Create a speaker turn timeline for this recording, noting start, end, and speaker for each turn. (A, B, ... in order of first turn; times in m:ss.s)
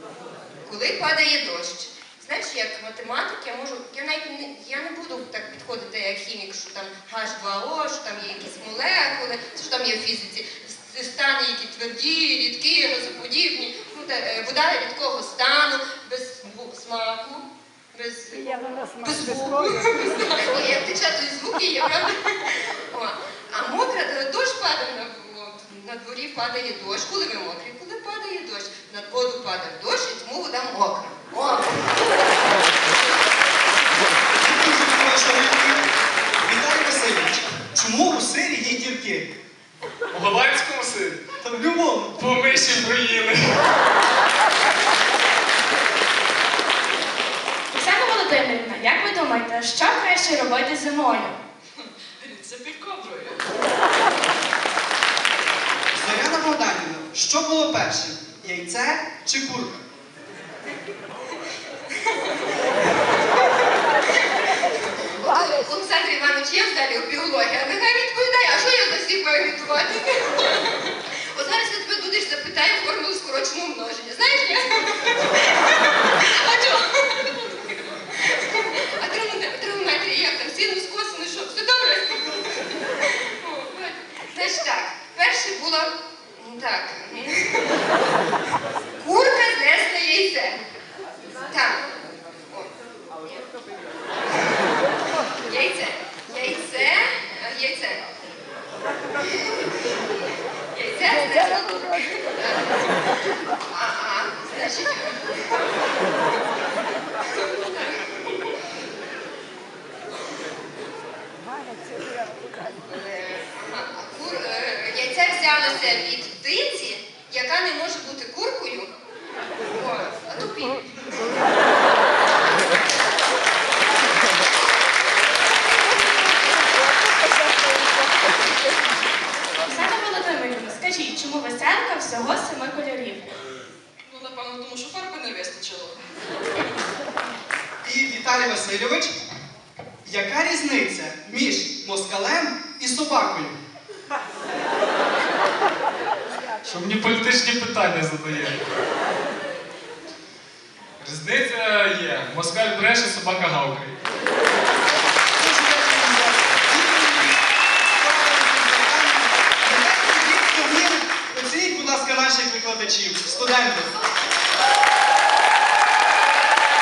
0:00.7-0:32.2 A
0:34.4-0:35.9 B
0:36.5-0:39.3 B
0:40.1-0:41.2 C
0:41.4-0:42.2 B
0:42.2-0:43.7 C
0:47.7-0:51.4 D
0:51.8-0:53.4 E
0:55.9-0:59.8 B
1:04.6-1:27.8 A
1:29.0-1:30.6 A
1:31.5-1:31.9 A
1:35.4-1:38.0 A
1:40.7-1:43.0 A
1:43.6-1:45.6 A
1:47.2-1:48.1 A
1:52.7-1:58.9 A
1:59.7-2:01.5 A
2:09.6-2:13.4 D
2:14.0-2:16.0 E
2:17.8-2:19.2 B
2:20.0-2:23.6 B
2:26.6-2:28.6 C
2:31.0-2:34.0 C
2:35.3-2:43.9 B